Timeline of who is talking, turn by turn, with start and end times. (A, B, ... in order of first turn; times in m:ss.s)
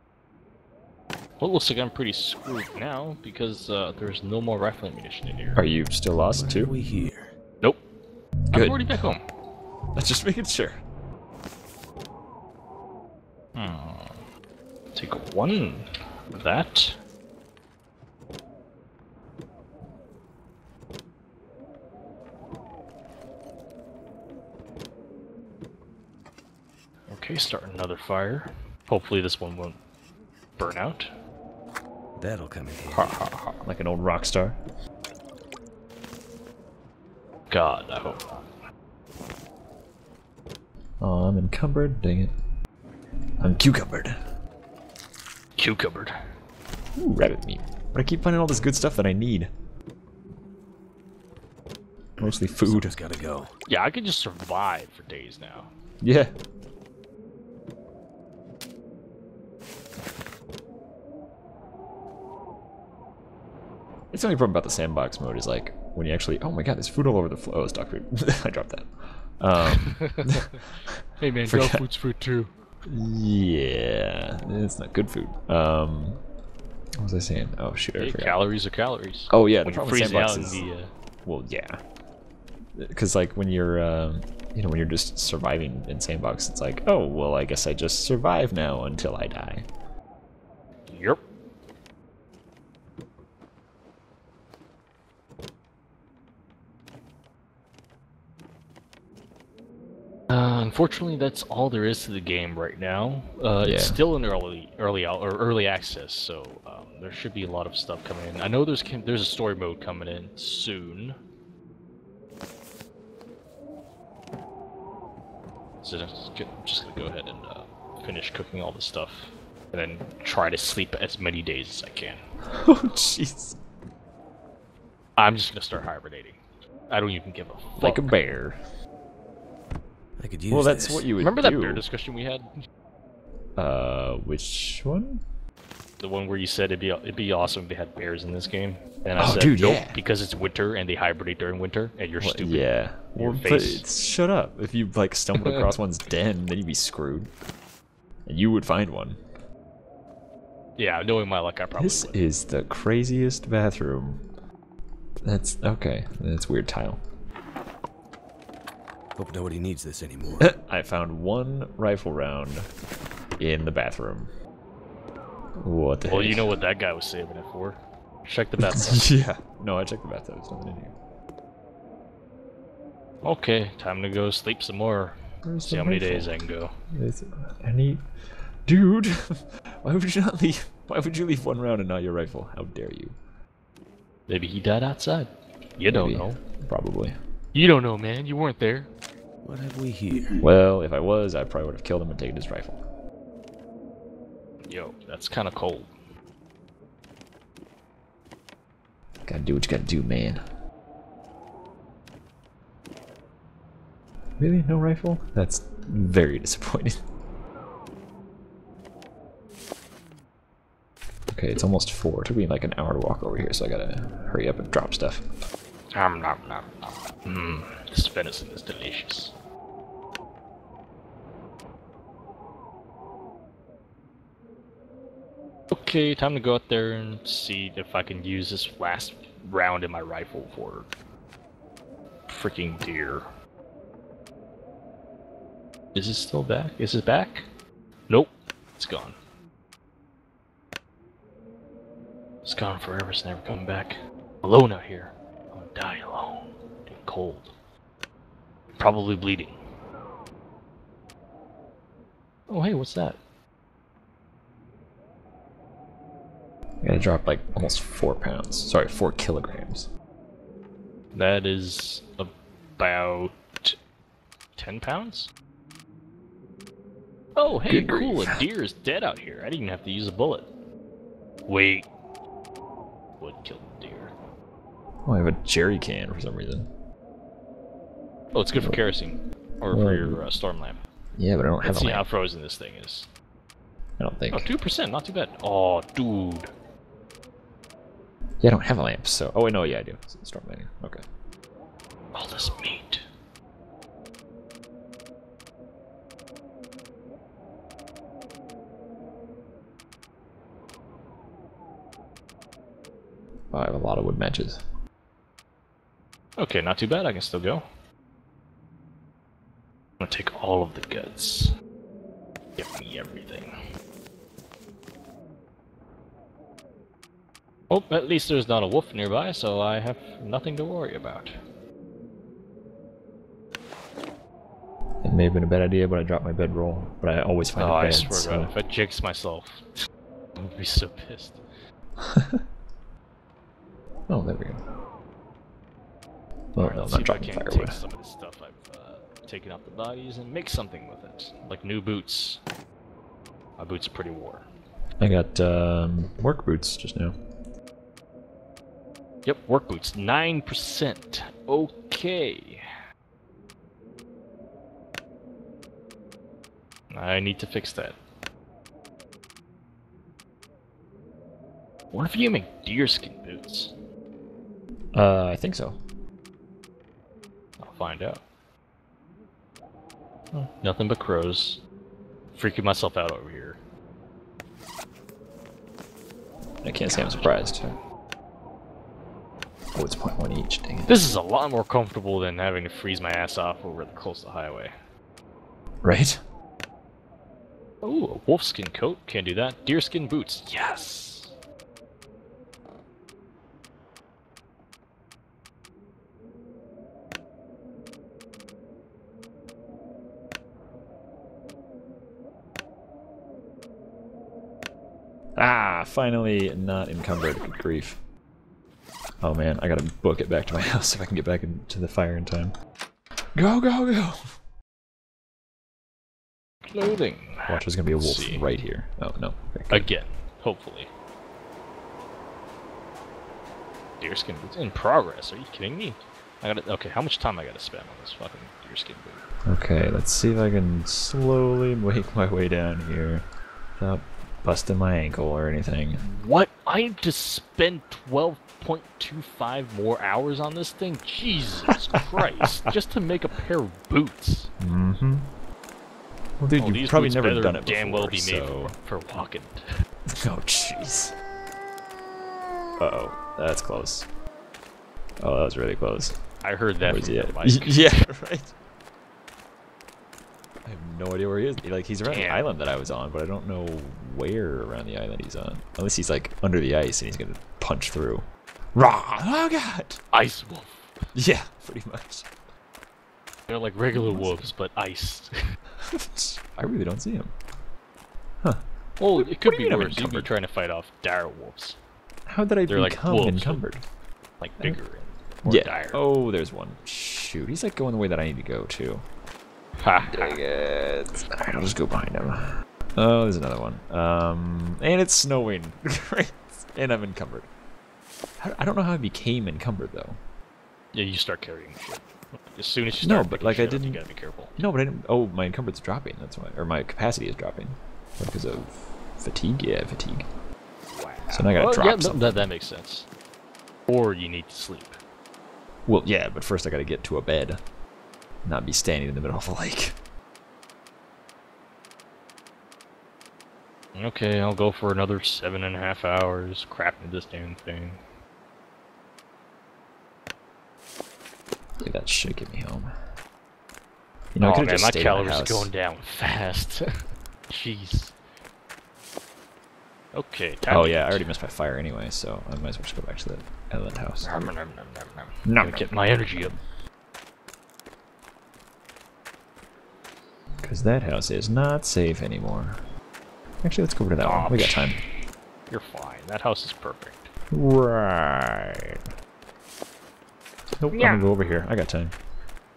0:01.4-0:05.6 A
0:05.6-0:06.8 B
0:06.3-0:07.3 C
0:08.5-0:09.0 B
0:08.5-0:09.2 A
0:09.9-0:10.8 B
0:13.6-0:14.2 A
0:15.0-0:17.0 A
0:27.1-0:29.8 A
0:30.6-0:31.1 A
0:32.2-0:33.3 C
0:32.9-0:33.6 A
0:33.6-0:34.6 B
0:37.5-0:38.4 A
0:41.0-0:42.3 B
0:43.4-0:44.2 B
0:45.6-0:46.1 A
0:47.0-0:49.5 B
0:52.2-0:53.0 B
0:52.2-0:53.5 C
0:53.7-0:55.7 A
0:56.0-0:56.3 B
1:04.1-1:11.8 B
1:09.7-1:10.6 A
1:11.2-1:12.5 A
1:12.8-1:16.2 B
1:17.0-1:18.4 B
1:18.0-1:20.9 A
1:19.3-1:20.7 B
1:21.2-1:21.8 B
1:22.8-1:29.7 B
1:30.9-1:31.2 A
1:40.3-1:51.2 A
1:43.6-1:44.0 B
1:55.8-2:02.2 A
2:02.5-2:03.6 B
2:05.2-2:06.4 A
2:06.9-2:08.2 A
2:07.8-2:08.6 B
2:10.2-2:11.1 C
2:10.5-2:11.8 B
2:11.2-2:12.5 A
2:13.6-2:15.2 B
2:16.0-2:23.8 A
2:19.2-2:20.0 B
2:22.2-2:27.3 B
2:28.3-2:29.2 B
2:30.8-2:32.2 A
2:31.8-2:34.2 B
2:35.2-2:37.0 B
2:39.2-2:40.5 C
2:40.4-2:42.7 B
2:43.4-2:44.3 B
2:45.6-2:46.5 B
2:46.0-2:49.1 A
2:48.6-2:51.0 B
2:53.2-2:56.7 A
2:55.4-2:56.4 B
2:56.9-2:58.1 B
2:58.7-3:03.2 B
3:04.3-3:06.4 A
3:05.9-3:07.2 B
3:07.5-3:08.9 A
3:09.4-3:10.5 C
3:10.4-3:12.8 B
3:14.7-3:15.9 A
3:19.3-3:20.4 B
3:24.4-3:27.0 B
3:31.3-3:35.2 B
3:35.9-3:39.3 A
3:45.7-3:50.9 A
3:52.3-3:53.3 A
3:55.9-3:57.5 A
3:58.1-3:59.2 A
4:02.4-4:07.5 A
4:08.8-4:09.6 A
4:12.5-4:13.2 A
4:16.8-4:19.9 B
4:21.1-4:23.8 A
4:24.6-4:25.3 A
4:27.4-4:30.5 A
4:27.7-4:28.4 B
4:31.5-4:31.9 A
4:33.2-4:34.1 A
4:35.1-4:36.7 B
4:38.3-4:40.8 A
4:38.6-4:38.8 B
4:39.7-4:40.2 B
4:41.2-4:42.1 B
4:41.6-4:43.1 A
4:44.0-4:44.5 B
4:44.3-4:46.5 A
4:48.4-4:51.0 B
4:52.1-4:53.0 A
5:03.5-5:04.6 B
5:06.4-5:07.6 A
5:10.0-5:11.5 A
5:12.6-5:13.5 A
5:17.7-5:21.3 A
5:25.0-5:28.5 B
5:27.6-5:29.7 A
5:30.4-5:31.4 A
5:32.0-5:32.4 B
5:34.1-5:34.6 B
5:36.6-5:37.8 B
5:36.6-5:42.4 A
5:43.6-5:44.5 A
5:45.0-5:47.2 B
5:49.2-5:52.6 A
5:56.9-5:58.0 A
6:01.9-6:03.7 A
6:05.0-6:05.8 B
6:07.6-6:08.2 A
6:10.3-6:11.6 A
6:12.3-6:13.6 A
6:16.6-6:17.8 B
6:16.8-6:17.6 A
6:19.7-6:20.9 B
6:20.9-6:24.7 A
6:25.8-6:26.2 B
6:27.8-6:31.3 A
6:45.4-6:48.0 B
6:49.2-6:52.5 B
6:53.4-6:54.4 B
6:56.7-6:58.5 A
6:57.5-6:59.9 B
6:59.7-7:00.9 A
7:04.0-7:09.2 A
7:09.5-7:13.2 B
7:13.8-7:16.0 B
7:16.0-7:24.5 A
7:24.6-7:25.3 B
7:26.4-7:28.7 B
7:26.6-7:29.6 A
7:30.1-7:31.2 B
7:32.8-7:34.1 B
7:35.2-7:36.2 B
7:36.4-7:38.0 A
7:36.8-7:38.5 B
7:40.6-7:50.0 B
7:42.0-7:42.5 A
7:50.1-7:51.0 A
7:51.1-7:52.3 B
7:53.5-7:55.3 A
7:53.9-7:54.5 B
7:55.8-7:57.3 B
7:58.4-8:00.3 B
7:59.0-8:01.8 A
8:02.3-8:03.8 B
8:02.7-8:03.6 A
8:04.4-8:06.0 A
8:05.5-8:09.0 B
8:09.8-8:10.4 A
8:10.1-8:17.5 B
8:18.4-8:20.2 B
8:20.9-8:24.6 A
8:23.0-8:24.0 B
8:24.6-8:30.3 B
8:30.9-8:33.1 A
8:31.3-8:32.5 B
8:33.9-8:35.0 A
8:35.9-8:37.6 B
8:38.4-8:40.0 B
8:44.0-8:48.0 A
8:51.8-8:52.9 B
8:54.4-8:55.7 B
8:54.4-8:56.9 A
8:57.5-8:58.2 A
9:00.1-9:01.3 A
9:00.7-9:04.3 B
9:04.2-9:06.6 A
9:05.4-9:06.5 B
9:10.6-9:12.8 B
9:13.6-9:15.0 B
9:14.2-9:15.0 A
9:15.7-9:17.3 A
9:17.5-9:19.0 B
9:20.8-9:22.1 B
9:20.9-9:21.3 A